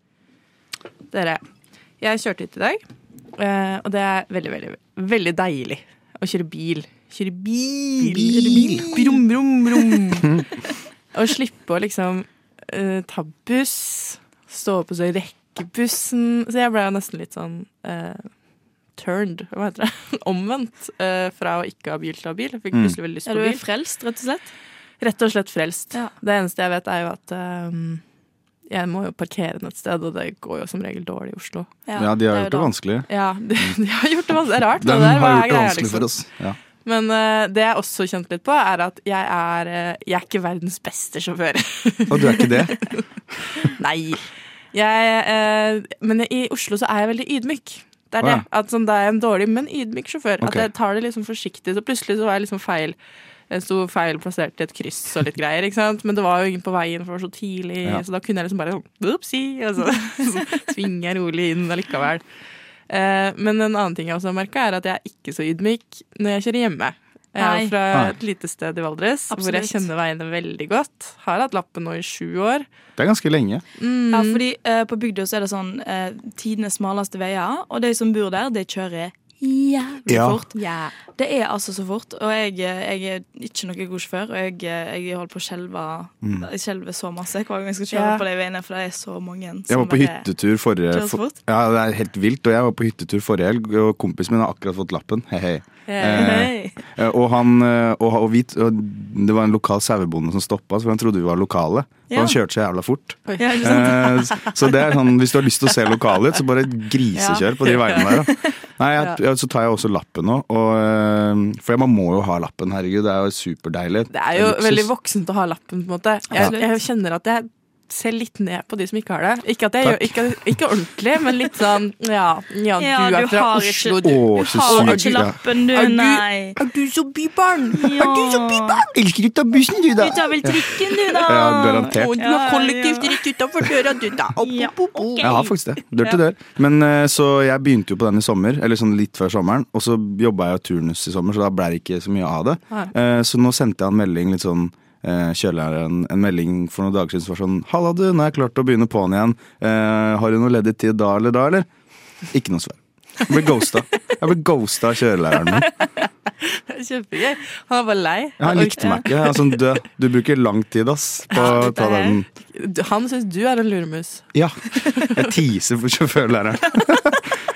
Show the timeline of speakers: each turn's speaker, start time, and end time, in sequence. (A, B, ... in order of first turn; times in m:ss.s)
0:01.1-0:01.4 A
0:02.0-0:02.8 A
0:03.4-0:10.3 A
0:08.0-0:08.9 B
0:11.1-0:23.6 A
0:23.3-0:24.5 C
0:25.0-0:28.0 A
0:28.7-0:31.7 A
0:31.9-0:32.7 C
0:32.0-0:33.1 B
0:33.1-0:36.1 A
0:34.8-0:36.6 B
0:36.8-0:43.0 A
0:42.1-0:42.7 B
0:43.5-0:53.0 A
0:50.4-0:50.7 B
0:53.5-1:02.2 A
1:02.9-1:12.6 A
1:07.4-1:07.8 C
1:09.3-1:09.8 C
1:13.0-1:13.6 B
1:13.8-1:14.4 A
1:14.1-1:30.3 C
1:20.1-1:20.4 B
1:20.6-1:20.9 A
1:27.9-1:28.2 A
1:29.7-1:54.9 B
1:30.9-1:31.4 C
1:35.9-1:36.7 A
1:36.1-1:36.7 C
1:42.1-1:42.4 C
1:43.3-1:44.5 A
1:43.4-1:44.2 C
1:47.2-1:48.2 C
1:47.6-1:48.2 A
1:54.1-2:08.2 A
1:56.3-1:56.7 C
1:59.8-2:00.4 B
2:02.8-2:06.6 C
2:04.0-2:05.4 B
2:07.7-2:08.8 C
2:08.0-2:12.1 B
2:10.0-2:13.2 C
2:12.0-2:15.6 A
2:14.4-2:15.4 C
2:15.2-2:31.7 B
2:32.3-2:35.6 B
2:36.5-2:39.4 A
2:38.4-2:42.3 B
2:41.4-2:42.2 C
2:42.5-2:44.3 A
2:45.2-2:47.2 B